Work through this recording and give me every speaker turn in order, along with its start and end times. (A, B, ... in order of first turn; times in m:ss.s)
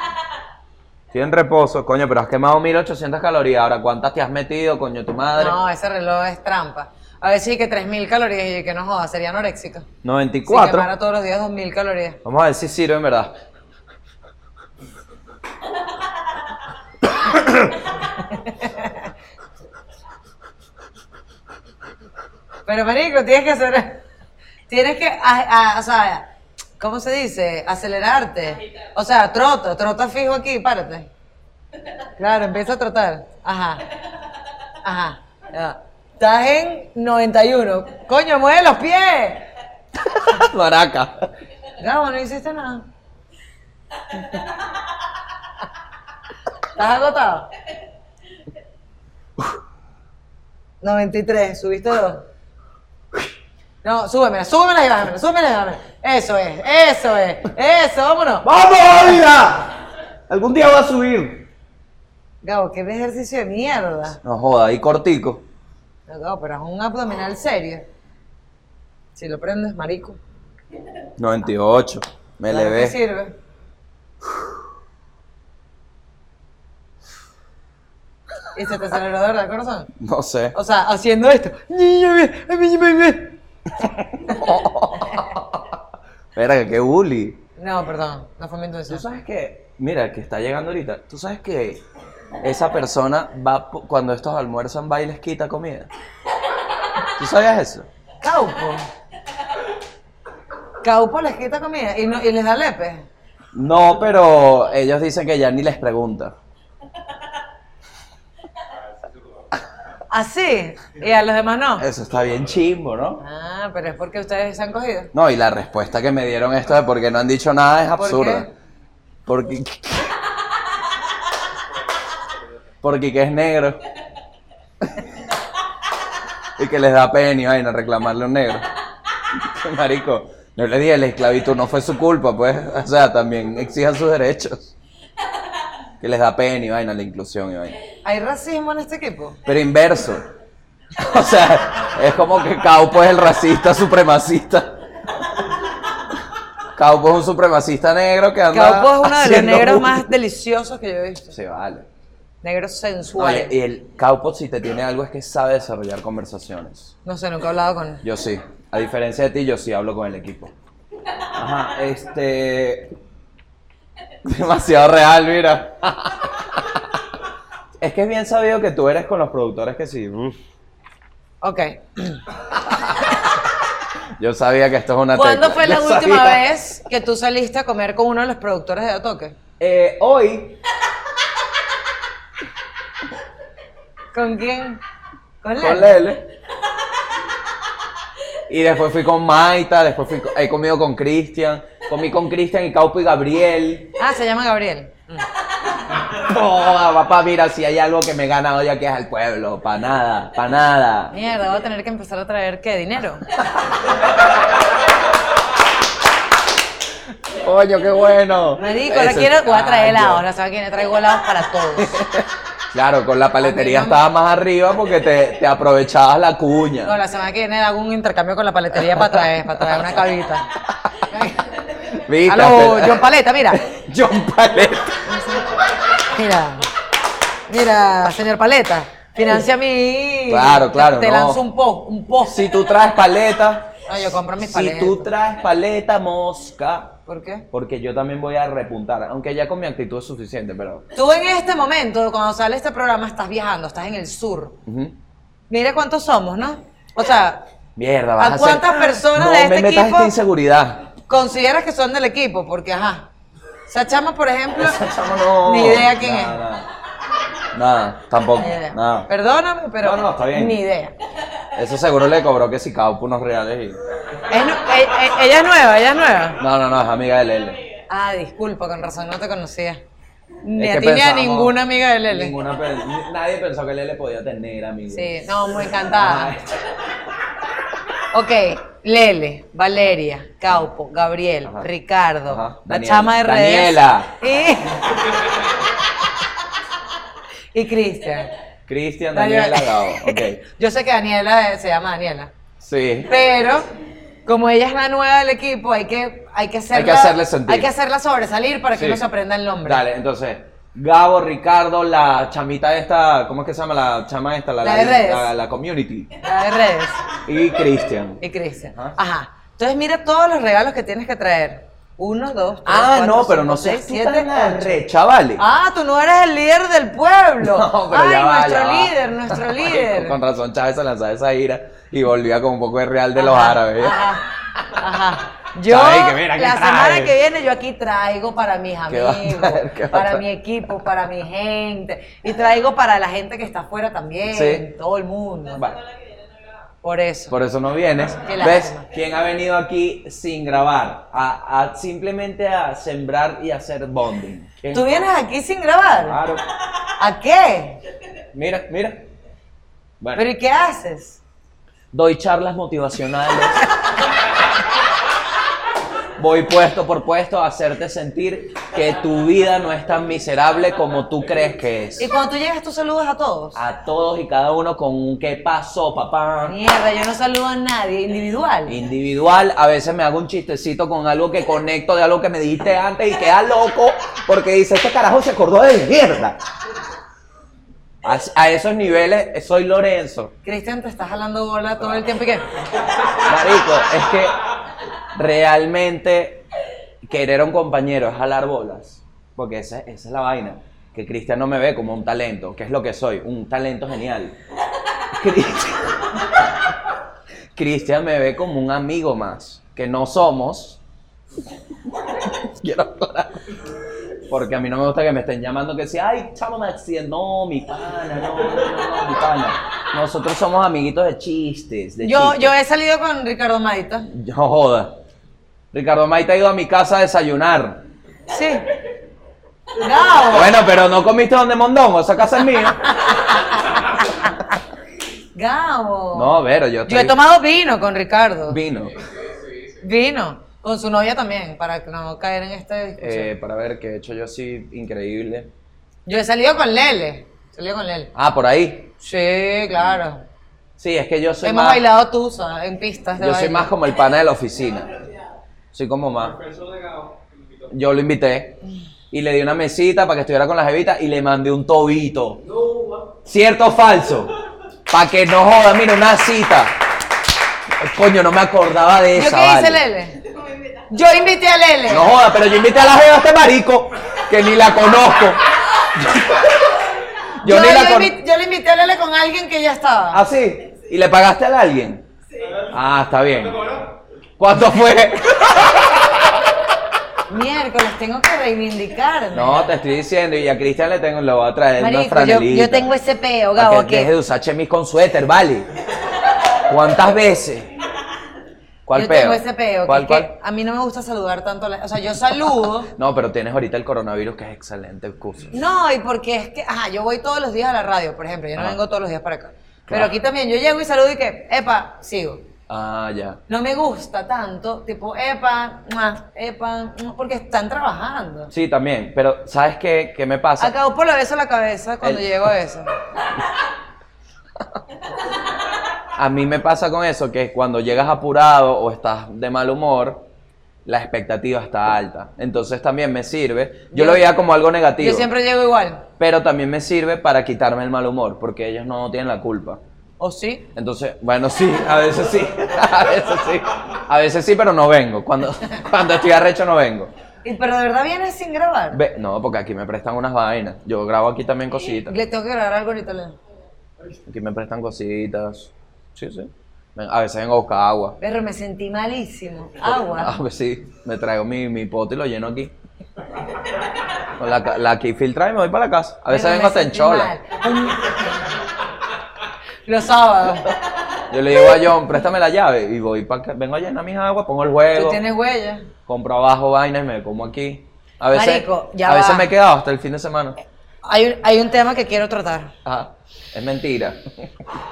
0:01.1-0:05.6 A
0:05.4-0:09.9 B
0:10.0-0:10.9 A
0:10.4-0:12.2 B
0:12.2-0:13.3 A
0:18.3-0:19.1 B
0:22.7-0:24.0 B
0:24.7-0:31.1 B
0:32.2-0:33.9 B
0:34.8-0:39.5 B
0:40.0-0:41.3 A
0:41.8-0:42.9 B
0:46.7-0:47.5 B
0:50.8-0:52.3 B
0:53.8-0:58.5 B
0:58.4-0:59.8 A
1:00.3-1:01.5 A
1:02.4-1:04.2 B
1:04.2-1:05.4 A
1:06.1-1:07.9 B
1:09.2-1:10.2 B
1:11.2-1:13.0 A
1:12.5-1:13.3 B
1:18.5-1:19.9 B
1:20.0-1:20.5 A
1:20.5-1:23.4 B
1:23.8-1:25.8 A
1:26.3-1:27.4 A
1:27.6-1:29.0 B
1:28.9-1:31.8 A
1:32.4-1:35.9 A
1:37.0-1:37.9 A
1:38.2-1:38.9 B
1:40.8-1:43.1 B
1:43.5-1:46.3 A
1:50.1-1:51.8 B
1:51.8-1:53.2 A
1:53.2-1:55.1 B
1:55.1-1:58.4 A
1:58.0-1:58.5 B
1:59.2-2:00.2 A
2:02.8-2:03.8 A
2:06.6-2:08.7 A
2:09.2-2:14.7 A
2:16.0-2:17.8 A
2:18.0-2:19.4 B
2:19.4-2:20.2 A
2:21.0-2:24.8 A
2:26.7-2:30.1 A
2:28.5-2:31.4 B
2:31.3-2:31.9 A
2:32.4-2:33.5 B
2:33.2-2:36.9 A
2:37.0-2:38.0 B
2:38.0-2:40.5 A
2:41.3-2:42.9 A
2:44.2-2:47.0 A
2:47.8-2:50.4 A
2:51.4-2:52.2 B
2:52.7-2:53.2 A
2:54.2-2:56.4 A
2:55.1-2:59.3 B
2:59.6-3:00.6 A
3:04.1-3:04.8 B
3:05.4-3:06.0 B
3:05.6-3:06.2 A
3:08.5-3:13.9 A
3:14.0-3:15.3 B
3:16.0-3:21.1 A
3:21.1-3:23.3 B
3:27.3-3:30.2 A
3:28.6-3:32.0 B
3:31.8-3:37.0 A
3:33.4-3:34.0 B
3:36.8-3:41.4 B
3:38.7-3:39.9 A
3:41.8-3:45.2 A
3:42.2-3:43.6 B
3:45.1-3:46.7 B
3:47.5-3:52.4 B
3:50.3-3:51.4 A
3:52.2-3:53.8 A
3:53.9-3:55.1 B
3:54.4-3:57.0 A
3:57.1-3:57.4 B
3:57.5-4:00.8 A
4:00.9-4:04.6 B
4:04.6-4:04.9 A
4:05.5-4:07.4 B
4:07.8-4:10.9 A
4:08.2-4:10.1 B
4:11.1-4:13.1 B
4:13.7-4:14.9 B
4:14.6-4:16.7 A
4:15.4-4:16.4 B
4:17.5-4:19.1 A
4:18.3-4:20.9 B
4:19.8-4:20.6 A
4:21.5-4:23.8 A
4:24.3-4:26.4 B
4:26.4-4:27.6 A
4:27.9-4:29.8 B
4:30.4-4:32.3 B
4:30.6-4:36.5 A
4:34.9-4:36.5 B
4:38.0-4:45.1 B
4:41.4-4:41.7 A
4:42.2-4:44.2 A
4:47.5-4:48.3 B
4:48.7-4:50.4 A
4:49.1-4:52.3 B
4:52.6-4:53.1 A
4:53.1-4:53.7 B
4:54.2-4:59.8 B
4:56.7-4:57.7 A
4:58.7-4:59.0 A
4:59.6-5:06.1 A
5:04.6-5:05.3 B
5:06.2-5:07.1 B
5:07.2-5:08.2 A
5:08.2-5:14.8 B
5:12.6-5:15.4 A
5:15.4-5:20.2 B
5:17.4-5:24.0 A
5:23.2-5:35.6 B
5:25.6-5:27.1 A
5:28.9-5:30.2 A
5:34.3-5:34.6 A
5:35.5-5:35.8 A
5:36.8-5:37.4 B
5:37.3-5:45.1 A
5:38.2-5:38.8 B
5:44.7-5:46.2 B
5:45.9-5:46.5 A
5:47.0-5:47.8 B
5:48.3-5:49.1 A
5:50.1-5:51.2 B
5:51.9-5:53.7 A
5:56.2-6:02.1 A
6:02.0-6:03.6 B
6:03.5-6:06.6 A
6:06.4-6:08.8 B
6:08.7-6:16.4 A
6:18.0-6:20.3 A
6:20.4-6:22.5 B
6:23.1-6:24.4 A
6:25.1-6:26.4 A
6:27.0-6:34.4 A
6:35.1-6:36.7 A
6:37.5-6:40.8 A
6:41.9-6:43.6 A
6:44.2-6:52.5 A
6:52.0-6:54.1 B
6:54.1-6:55.0 A
6:55.7-6:57.8 A
6:58.3-6:58.6 B
6:59.8-7:00.6 B
7:00.3-7:03.2 A
7:02.8-7:04.4 B
7:05.3-7:08.6 B
7:06.1-7:07.2 A
7:08.5-7:09.0 A
7:08.9-7:09.8 C
7:09.8-7:13.3 B
7:13.0-7:15.5 A
7:16.1-7:18.1 B
7:18.1-7:18.9 A
7:19.0-7:20.2 B
7:20.8-7:21.8 A
7:21.4-7:23.7 B
7:23.2-7:24.9 A
7:25.7-7:26.4 A
7:26.2-7:27.7 C
7:27.7-7:28.6 A
7:29.1-7:32.4 A
7:32.5-7:33.1 C
7:33.2-7:34.3 A
7:34.9-7:36.8 A
7:37.7-7:39.8 A
7:39.1-7:40.2 B
7:40.9-7:42.1 B
7:41.9-7:46.9 A
7:47.4-7:48.1 A
7:47.4-7:50.2 B
7:50.1-7:52.0 A
7:52.6-7:53.8 A
7:54.4-7:56.6 A
7:57.3-7:59.7 B
7:59.3-8:02.9 A
8:01.8-8:04.1 B
8:03.6-8:05.7 A
8:06.5-8:07.7 A
8:08.8-8:10.3 A
8:08.9-8:12.9 B
8:12.9-8:15.5 A
8:15.5-8:22.4 B
8:19.9-8:20.1 A
8:22.7-8:23.4 A
8:23.5-8:28.5 B
8:28.5-8:30.7 A
8:30.6-8:33.0 B
8:32.0-8:32.5 A
8:36.1-8:40.3 A
8:40.8-8:45.3 A
8:43.9-8:44.2 B
8:45.0-8:46.0 B
8:46.2-8:49.8 A
8:50.2-8:50.7 B
8:50.7-8:57.1 A
8:57.4-8:59.0 B
8:58.9-9:02.2 A
9:02.0-9:03.4 B
9:04.2-9:08.2 A
9:08.2-9:10.3 B
9:09.8-9:12.7 A
9:14.2-9:17.3 A
9:16.3-9:18.5 B
9:19.8-9:20.8 B
9:20.7-9:25.2 A
9:24.9-9:25.9 B
9:26.1-9:30.6 A
9:28.3-9:29.5 B
9:31.0-9:32.7 B
9:32.8-9:34.7 A